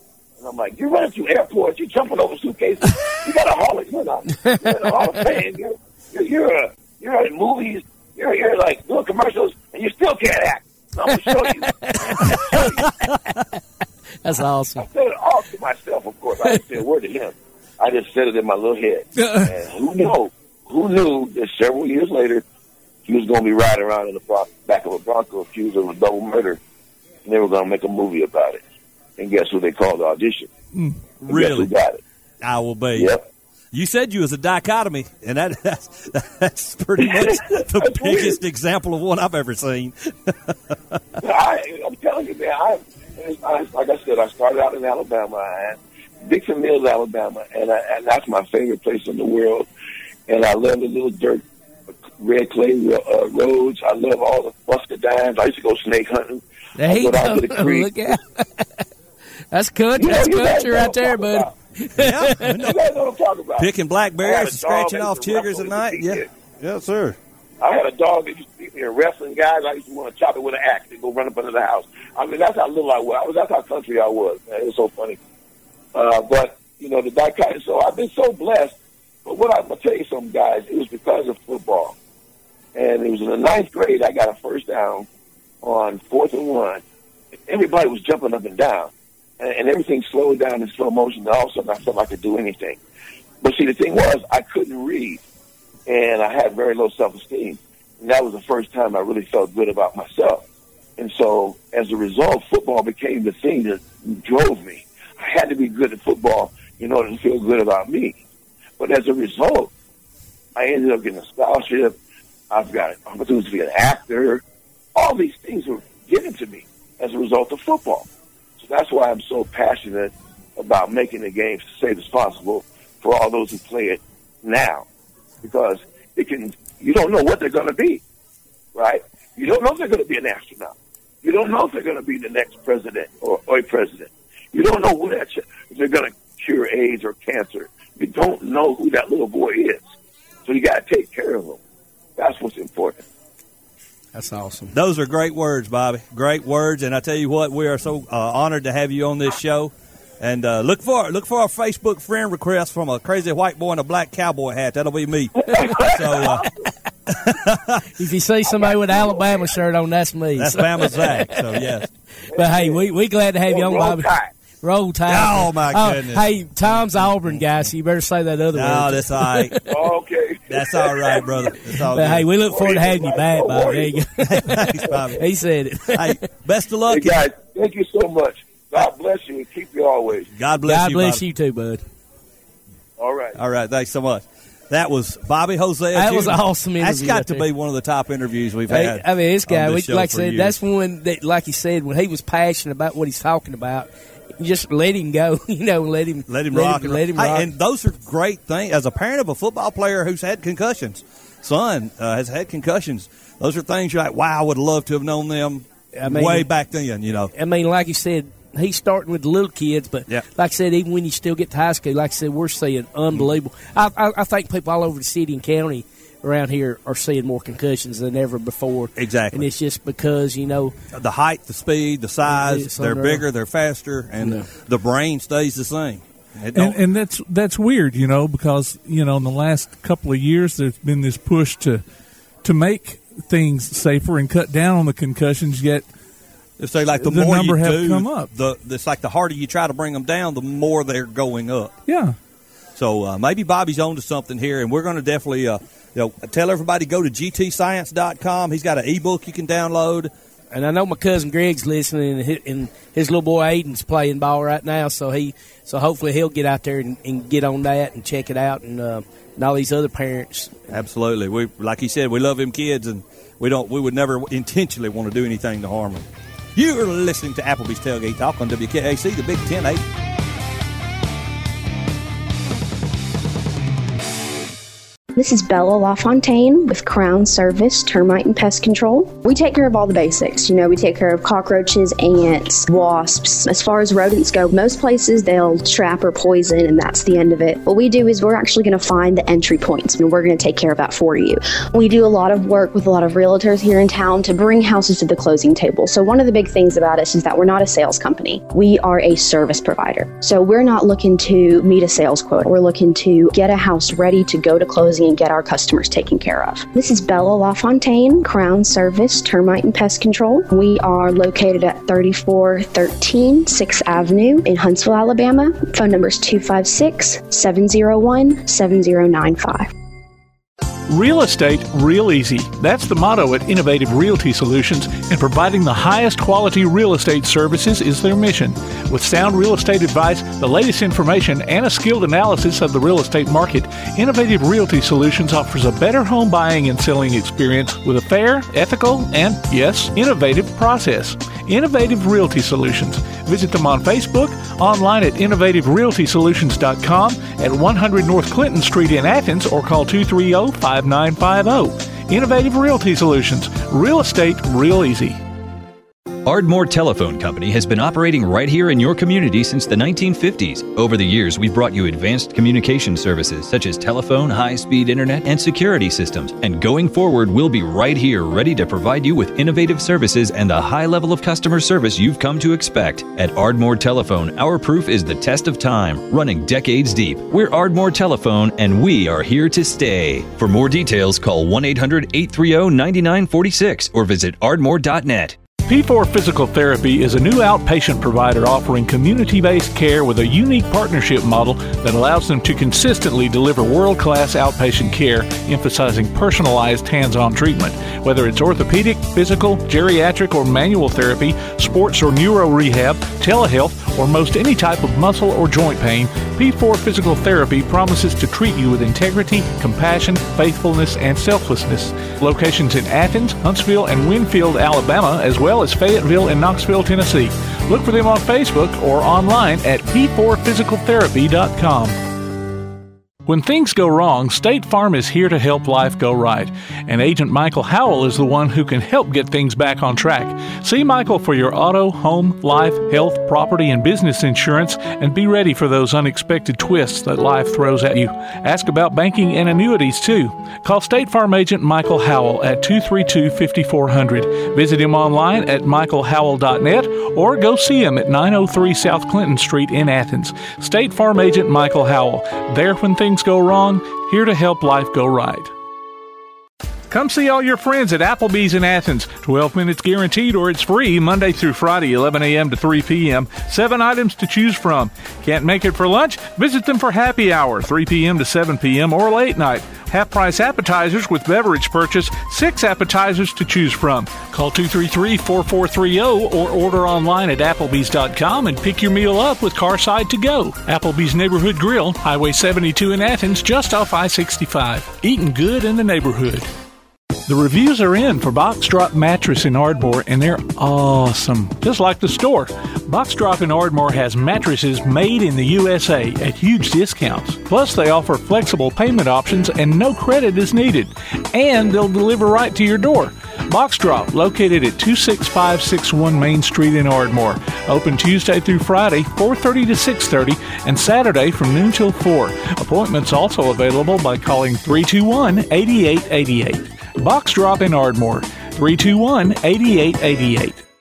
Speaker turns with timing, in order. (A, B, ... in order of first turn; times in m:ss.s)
0:00.4-0:13.0 A
0:04.3-0:05.4 B
0:11.0-0:13.6 B
0:14.2-0:14.9 B
0:14.8-0:22.4 A
0:16.4-0:16.8 B
0:19.2-0:19.5 C
0:23.0-0:26.6 A
0:27.2-0:28.6 A
0:29.2-0:30.5 A
0:30.7-0:31.0 C
0:31.2-0:32.0 A
0:31.3-0:31.7 D
0:32.4-0:33.2 D
0:32.9-0:33.2 A
0:33.7-0:40.5 D
0:37.0-0:38.4 A
0:41.2-0:49.7 A
0:50.3-0:51.4 A
0:52.2-0:57.9 A
0:56.8-0:58.8 B
0:59.5-1:02.6 B
1:00.0-1:01.6 A
1:02.0-1:02.8 D
1:02.6-1:06.3 A
1:03.6-1:07.2 D
1:07.6-1:15.2 A
1:15.9-1:18.7 A
1:19.2-1:21.9 A
1:22.7-1:25.1 A
1:25.6-1:26.8 A
1:27.5-1:32.8 A
1:33.4-1:35.2 A
1:35.8-1:40.4 A
1:41.0-1:48.2 A
1:48.8-1:49.7 A
1:50.6-1:52.0 A
1:52.5-1:54.4 A
1:54.9-1:58.1 A
1:58.6-2:04.8 A
2:05.4-2:08.0 A
2:08.7-2:19.8 A
2:20.4-2:21.6 A
2:22.2-2:23.0 A
2:24.1-2:24.7 B
2:24.7-2:36.4 D
2:35.5-2:36.5 B
2:35.5-2:36.2 A
2:37.1-2:37.8 D
2:38.0-2:41.8 B
2:38.6-2:39.4 A
2:40.4-2:41.8 D
2:42.3-2:42.9 A
2:42.3-2:49.9 B
2:43.4-2:44.3 A
2:45.1-2:47.7 D
2:48.5-2:49.5 D
2:49.7-2:51.4 A
2:50.5-2:52.3 D
2:51.6-2:56.3 B
2:52.4-2:54.0 A
2:54.2-2:55.2 D
2:55.9-2:57.3 D
2:56.9-3:00.3 A
3:00.4-3:01.2 D
3:00.6-3:01.8 B
3:03.0-3:03.4 A
3:03.4-3:10.6 D
3:05.9-3:07.4 B
3:08.7-3:17.5 B
3:16.3-3:27.3 D
3:26.0-3:26.5 B
3:27.3-3:40.7 B
3:39.0-3:39.5 D
3:40.9-3:46.8 D
3:42.2-3:43.2 B
3:44.2-3:44.5 B
3:46.5-3:51.8 C
3:52.4-3:55.9 C
3:56.6-4:01.7 D
3:56.9-3:58.3 C
4:01.9-4:02.1 C
4:02.8-4:10.1 D
4:10.5-4:20.6 B
4:20.7-4:26.0 D
4:26.6-4:29.8 D
4:35.1-5:19.7 E
5:20.9-5:55.2 C
5:56.2-6:25.4 F
6:25.6-7:02.0 C
7:03.2-7:35.5 C
7:36.9-8:06.4 C
8:07.3-8:40.6 C